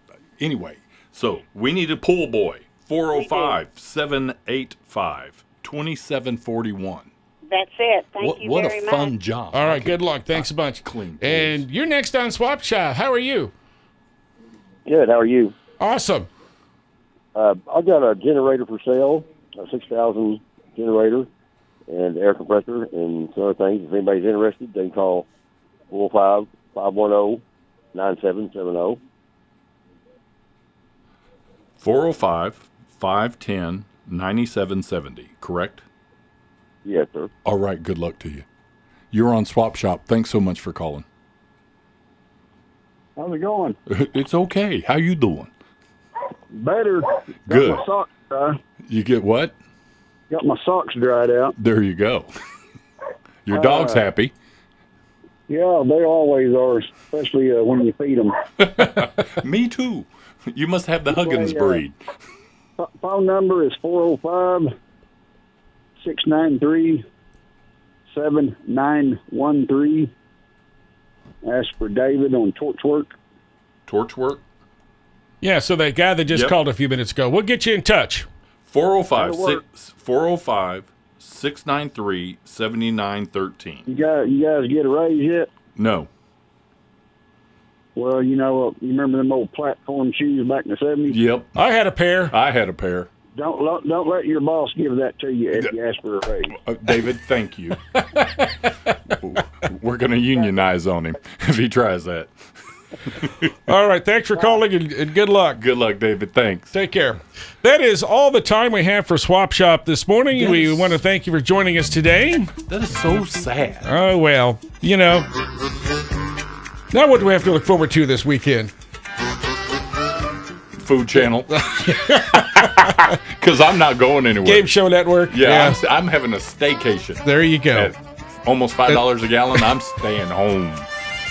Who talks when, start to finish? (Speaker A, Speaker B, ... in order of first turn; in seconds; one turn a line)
Speaker A: 0.4-7.1
Speaker B: 3.1-3.6
Speaker B: 7.5-9.2
Speaker A: 8.2-11.6
Speaker C: 9.5-13.5
Speaker D: 14.9-15.5
Speaker C: 15.8-16.3
Speaker D: 17.4-21.3
Speaker D: 21.9-25.3
Speaker D: 25.9-27.4
Speaker D: 27.9-29.0
Speaker A: 31.8-35.9
Speaker D: 36.9-37.3
Speaker A: 37.5-38.5
Speaker A: 39.1-41.0
Speaker E: 43.2-43.8
Speaker A: 43.9-45.5
Speaker E: 46.5-48.6
Speaker A: 47.5-47.9
Speaker A: 48.9-49.6
Speaker E: 50.3-51.5
Speaker A: 51.6-52.3
Speaker A: 53.5-54.3
Speaker E: 53.5-54.0
Speaker E: 55.5-58.4
Speaker A: 58.6-62.0
Speaker E: 61.1-61.8
Speaker E: 62.8-64.7
Speaker E: 66.0-67.0
Speaker E: 68.1-70.1
Speaker E: 71.4-73.2
Speaker A: 73.9-74.4
Speaker C: 75.4-78.3
Speaker A: 78.7-83.8
Speaker E: 79.2-79.6
Speaker E: 83.9-85.5
Speaker A: 85.8-86.1
Speaker E: 88.0-91.2
Speaker A: 91.1-91.6
Speaker C: 91.6-92.3
Speaker A: 92.3-93.1
Speaker E: 93.3-96.6
Speaker A: 96.5-98.5
Speaker A: 99.1-102.3
Speaker A: 103.1-103.5
Speaker C: 103.7-105.6
Speaker A: 105.6-106.8
Speaker C: 106.7-112.5
Speaker A: 110.3-111.0
Speaker A: 112.7-113.9
Speaker C: 113.8-115.3
Speaker C: 116.9-118.7
Speaker A: 120.8-124.7
Speaker C: 121.5-123.2
Speaker C: 124.5-125.8
Speaker A: 125.3-130.9
Speaker C: 127.2-127.9